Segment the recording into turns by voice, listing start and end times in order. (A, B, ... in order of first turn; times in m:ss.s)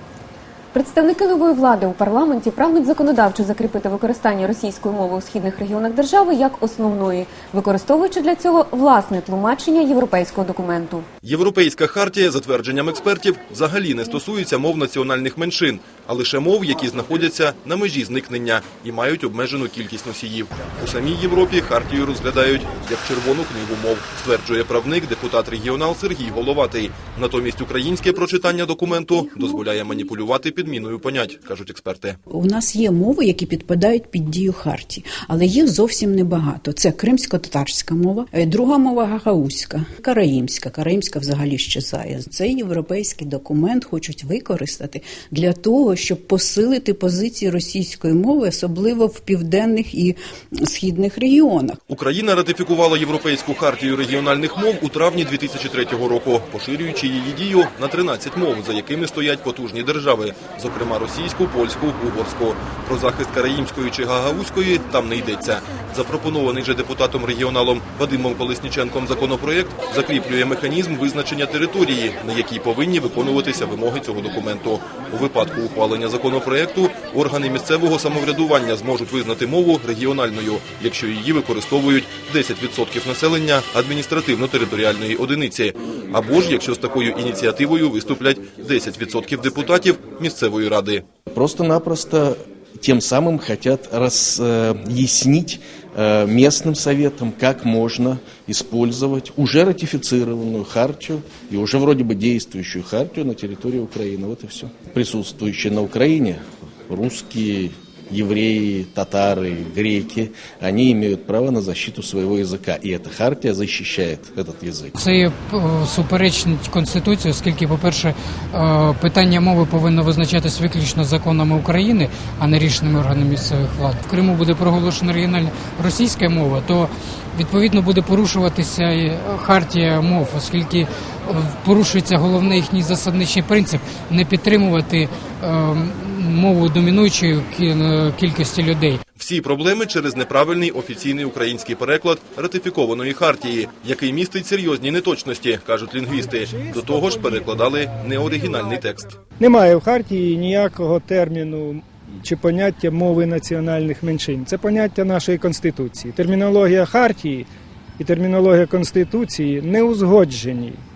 0:00.7-0:11.1 A
0:11.2-0:32.2 B
0:32.3-0:51.8 C
0:51.9-1:31.0 B
1:31.3-1:54.9 D
1:55.0-2:19.0 E
2:19.2-2:29.2 B
2:26.6-2:27.6 F
2:29.4-2:40.8 F